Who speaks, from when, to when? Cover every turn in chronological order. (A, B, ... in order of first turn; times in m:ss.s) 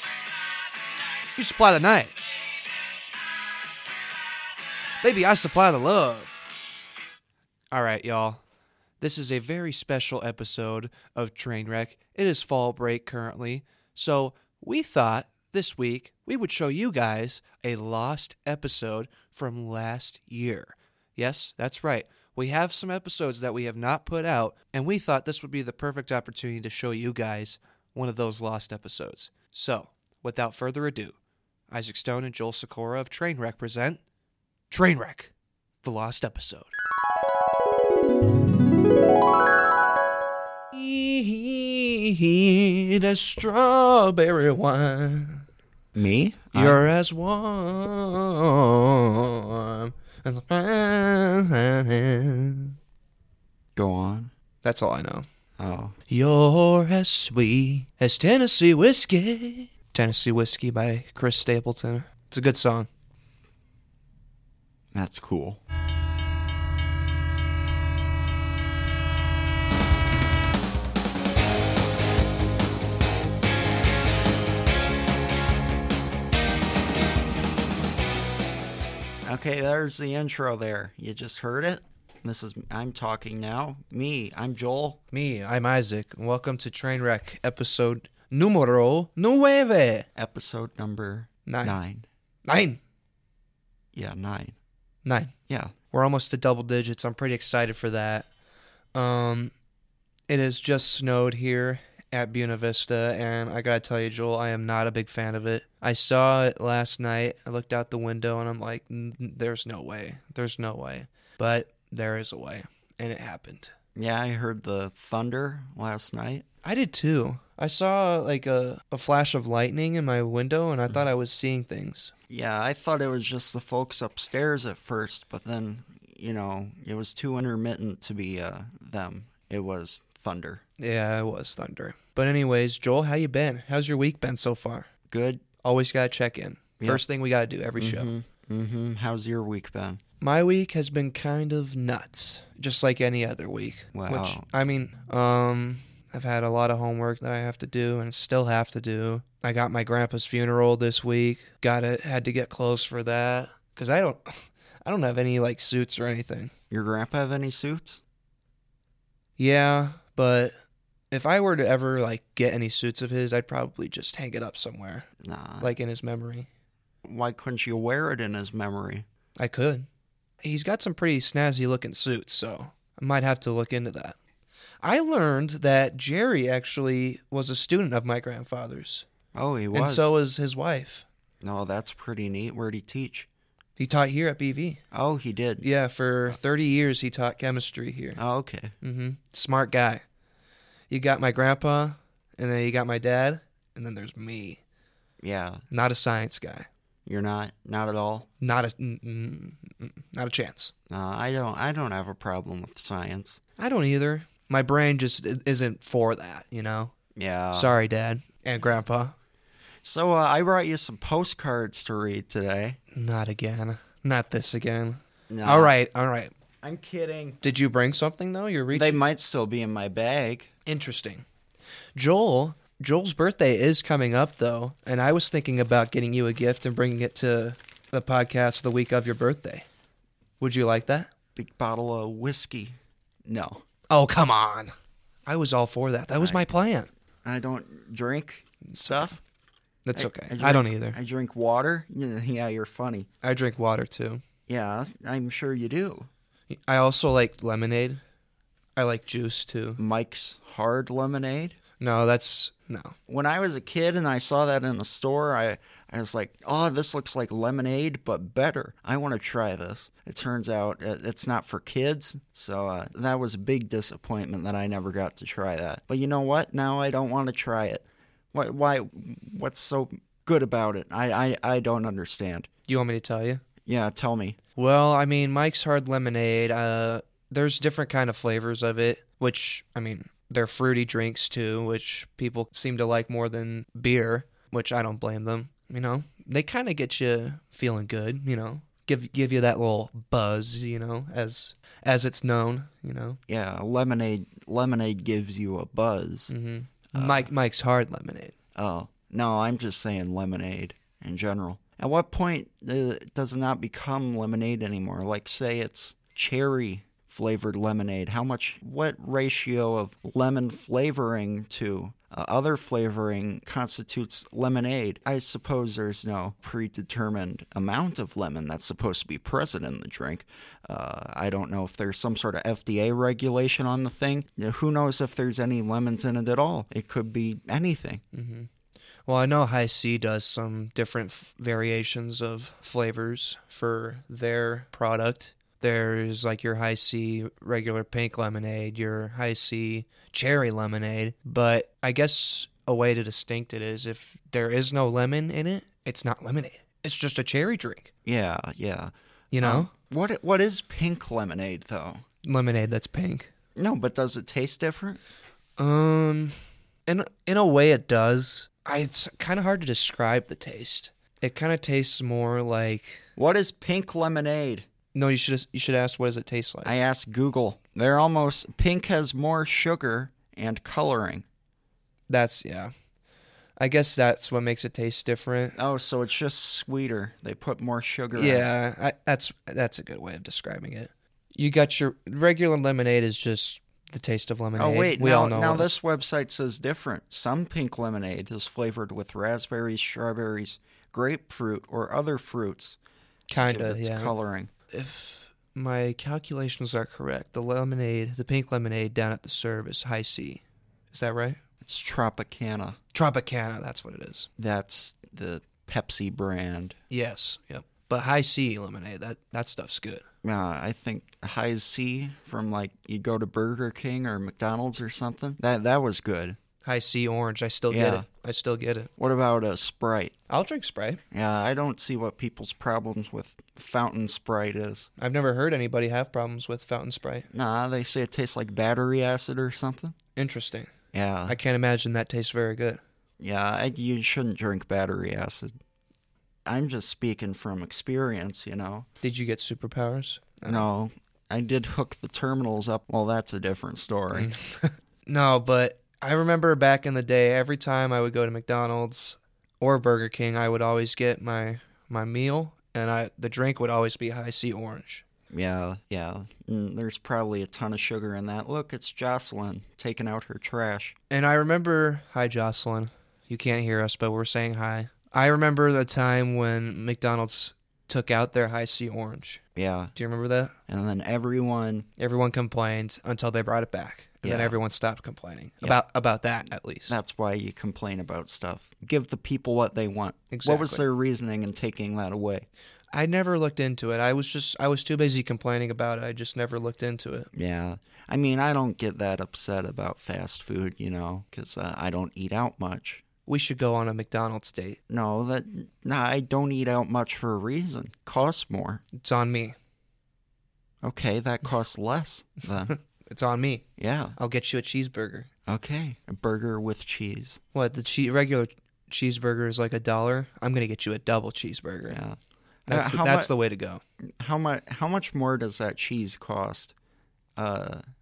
0:01.3-0:02.1 A
0:05.0-0:06.4 A
0:07.7-0:08.4 A
0:09.0-0:31.1 A
0:31.7-0:34.0 A
0:34.7-0:35.3 A
0:35.8-0:36.7 A
0:40.7-0:45.4 A
0:45.9-0:46.8 B
0:46.5-0:52.8 A
0:53.8-0:54.3 B
0:54.6-0:55.2 A
0:55.6-0:56.0 B
0:56.1-1:02.9 A
1:04.9-1:05.6 B
1:19.2-1:25.0 B
1:25.1-1:30.1 A
1:30.2-1:32.0 B
1:31.4-1:31.8 A
1:32.4-1:32.8 A
1:33.9-1:34.6 B
1:35.0-1:35.3 A
1:35.5-1:35.7 B
1:35.9-1:38.3 A
1:38.9-1:39.5 A
1:40.3-1:53.7 A
1:54.0-1:56.4 B
1:56.6-2:02.1 A
2:02.3-2:10.6 B
2:10.8-2:14.9 A
2:15.1-2:15.4 B
2:15.6-2:18.1 A
2:17.8-2:20.0 B
2:20.2-2:36.5 A
2:23.9-2:24.4 B
2:36.7-2:38.0 B
2:39.4-2:40.5 A
2:41.1-2:45.1 A
2:45.2-2:45.7 B
2:45.6-2:46.5 A
2:47.0-2:49.0 B
2:49.4-2:49.9 A
2:50.4-2:54.2 A
2:54.8-2:59.0 A
2:59.3-3:00.1 B
2:59.7-3:01.0 A
3:01.4-3:03.3 B
3:03.8-3:04.8 A
3:04.9-3:05.6 B
3:05.6-3:08.2 A
3:08.2-3:08.7 B
3:08.8-3:10.0 A
3:10.9-3:14.6 A
3:15.2-3:15.6 B
3:15.7-3:16.7 A
3:17.0-3:18.3 B
3:18.4-3:20.7 A
3:20.9-3:23.4 B
3:23.6-3:26.9 A
3:27.2-3:27.8 B
3:27.5-3:29.1 A
3:29.8-3:32.8 B
3:32.9-3:36.3 A
3:35.3-3:35.7 B
3:36.6-3:37.4 B
3:37.4-3:39.0 A
3:38.7-3:40.5 B
3:40.6-3:41.2 A
3:41.9-3:49.6 A
3:50.4-3:51.1 A
3:51.4-3:53.6 B
3:53.9-3:54.7 A
3:55.2-3:56.9 A
3:56.2-3:56.5 B
3:57.2-3:59.2 B
3:58.6-3:59.2 A
3:59.9-4:01.0 A
3:59.9-4:03.1 B
4:03.2-4:04.2 A
4:04.5-4:06.1 B
4:06.5-4:08.0 A
4:08.8-4:09.8 A
4:09.8-4:11.6 B
4:11.8-4:13.0 A
4:13.1-4:32.5 B
4:32.7-4:33.4 A
4:33.6-4:34.4 B
4:34.6-4:53.2 A
4:53.3-4:56.3 B
4:56.3-4:58.3 A
4:56.9-4:57.3 B
4:58.5-5:28.0 B
5:28.1-5:28.5 A
5:29.0-5:47.9 A
5:48.0-5:52.0 B
5:49.3-5:49.7 A
5:52.2-5:53.3 A
5:53.6-5:55.0 B
5:55.6-6:03.0 A
6:03.2-6:04.6 B
6:04.9-6:06.7 A
6:06.6-6:11.2 B
6:12.1-6:12.7 A
6:13.6-6:15.6 A
6:15.6-6:18.5 B
6:18.1-6:25.7 A
6:24.6-6:34.5 B
6:33.3-6:34.1 A
6:34.7-6:41.4 A
6:41.6-6:42.8 B
6:42.9-6:44.3 A
6:44.4-6:46.8 B
6:46.9-6:50.0 A
6:50.2-6:56.4 B
6:56.6-6:58.9 A
6:57.7-6:58.0 B
6:59.0-7:00.1 B
7:00.3-7:01.0 A
7:01.1-7:04.9 B
7:05.0-7:07.3 A
7:07.3-7:09.9 B
7:10.2-7:10.7 A
7:10.9-7:11.4 B
7:11.3-7:12.8 A
7:13.2-7:15.5 B
7:16.4-7:18.9 B
7:19.0-7:20.7 A
7:20.4-7:24.3 B
7:24.1-7:35.0 A
7:35.3-7:41.0 B
7:41.1-7:49.4 A
7:49.5-7:49.9 B
7:49.9-7:50.5 A
7:50.7-7:51.9 B
7:52.0-7:56.9 A
7:54.2-7:54.6 B
7:56.9-8:02.5 B
8:00.3-8:00.8 A
8:02.9-8:07.3 A
8:07.3-8:13.0 B
8:13.2-8:14.8 A
8:14.9-8:18.8 B
8:19.0-8:19.6 A
8:20.8-8:22.7 B
8:22.7-8:23.6 A
8:23.8-8:24.2 B
8:24.2-8:25.3 A
8:25.5-8:27.4 B
8:27.5-8:32.0 A
8:31.9-8:33.3 B
8:32.7-8:33.8 A
8:34.2-8:36.7 B
8:37.4-8:37.8 B